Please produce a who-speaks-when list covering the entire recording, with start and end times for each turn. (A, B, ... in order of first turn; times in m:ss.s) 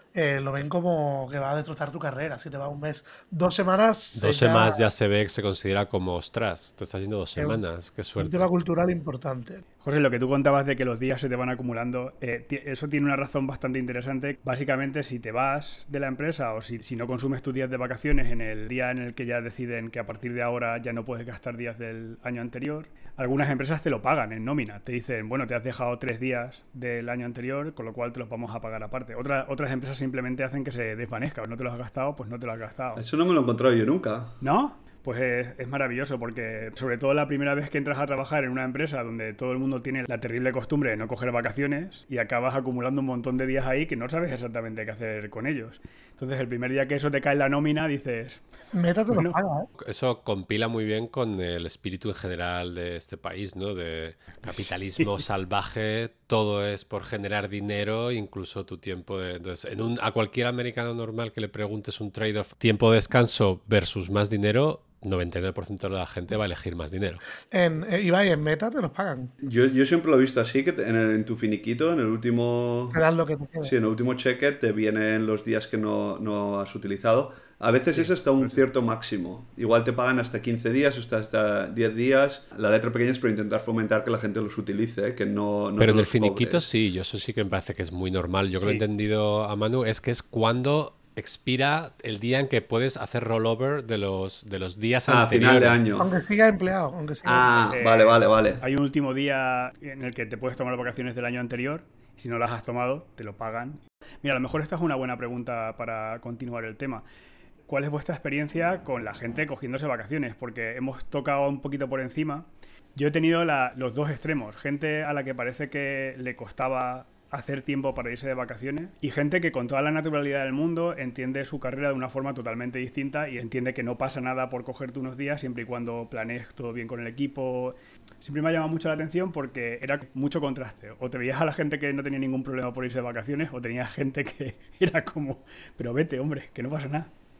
0:00.1-0:04.9 A
0:04.2-0:08.5 B
0:07.4-0:07.6 A
0:08.2-0:09.6 A
0:09.8-0:33.0 C
0:33.0-0:34.4 D
0:34.4-0:48.4 C
0:48.7-0:49.7 A
0:49.1-0:49.4 C
0:49.8-1:07.2 B
0:54.5-0:55.2 C
1:07.5-1:09.3 A
1:09.4-1:13.0 D
1:12.9-1:13.7 A
1:13.6-1:26.7 D
1:17.9-1:18.5 C
1:25.8-1:35.8 B
1:35.1-1:36.1 D
1:36.0-1:37.6 A
1:37.2-1:38.6 D
1:37.7-1:47.0 C
1:47.7-2:17.1 C